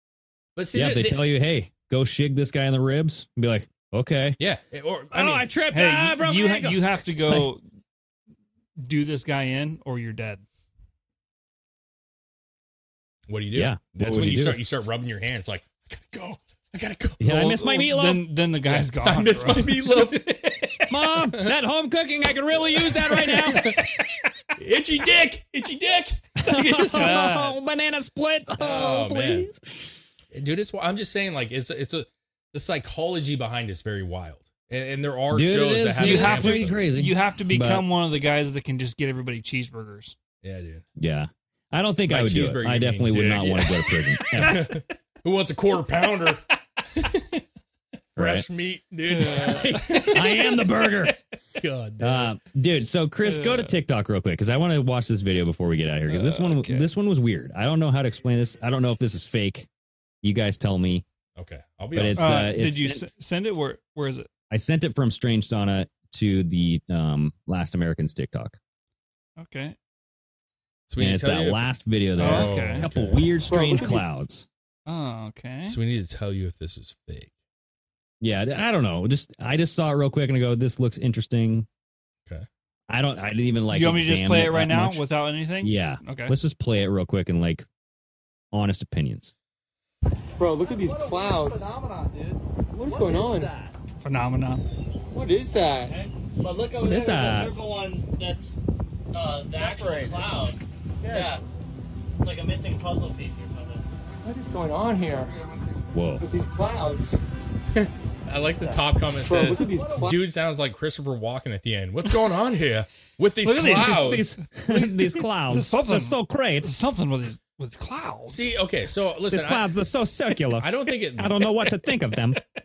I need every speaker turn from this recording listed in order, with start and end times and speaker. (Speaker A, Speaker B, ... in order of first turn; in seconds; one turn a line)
Speaker A: 0.6-1.2
Speaker B: 0.7-4.4
Speaker A: 4.4-5.5
Speaker B: 5.1-7.5
Speaker C: 5.7-7.6
Speaker C: 8.8-10.4
Speaker A: 13.3-17.6
Speaker B: 13.5-14.6
Speaker B: 17.2-18.3
Speaker C: 17.3-20.9
Speaker A: 18.7-20.7
Speaker B: 20.9-23.8
Speaker C: 23.3-24.1
Speaker A: 23.4-23.9
Speaker A: 24.6-27.2
Speaker B: 26.4-30.0
Speaker C: 26.8-27.6
Speaker A: 28.6-29.5
Speaker A: 30.3-36.8
Speaker B: 35.3-37.9
Speaker C: 36.0-40.1
Speaker A: 40.4-40.8
Speaker B: 41.0-44.7
Speaker A: 42.1-43.7
Speaker C: 43.4-44.7
Speaker A: 44.4-47.4
Speaker A: 48.1-50.5
Speaker B: 48.2-48.5
Speaker C: 49.1-50.2
Speaker B: 49.3-51.2
Speaker A: 51.6-52.4
Speaker B: 52.0-59.7
Speaker C: 53.2-53.8
Speaker C: 56.1-56.9
Speaker B: 60.2-61.0
Speaker A: 61.4-62.5
Speaker B: 61.9-63.0
Speaker C: 62.2-64.3
Speaker B: 64.5-68.6
Speaker C: 69.4-69.8
Speaker A: 70.9-71.6
Speaker B: 71.0-74.5
Speaker A: 72.2-73.2
Speaker C: 72.2-72.9
Speaker D: 73.5-74.0
Speaker C: 74.9-75.8
Speaker A: 75.7-77.3
Speaker B: 78.2-81.7
Speaker B: 82.9-85.1
Speaker C: 83.7-86.4
Speaker B: 85.6-87.7
Speaker B: 88.5-89.3
Speaker D: 90.4-91.8
Speaker E: 90.5-93.7
Speaker D: 92.7-93.6
Speaker C: 94.0-94.6
Speaker D: 95.1-95.9
Speaker E: 95.8-98.6
Speaker B: 96.8-97.5
Speaker E: 99.1-101.4
Speaker D: 99.5-100.4
Speaker D: 101.0-101.4
Speaker E: 102.2-103.8
Speaker D: 104.2-105.3
Speaker B: 105.9-106.3
Speaker D: 106.2-107.2
Speaker A: 107.7-114.3
Speaker D: 108.6-110.2
Speaker E: 109.4-110.1
Speaker C: 113.4-118.5
Speaker B: 113.8-116.7
Speaker A: 118.3-119.7
Speaker B: 119.3-122.4
Speaker A: 120.6-121.5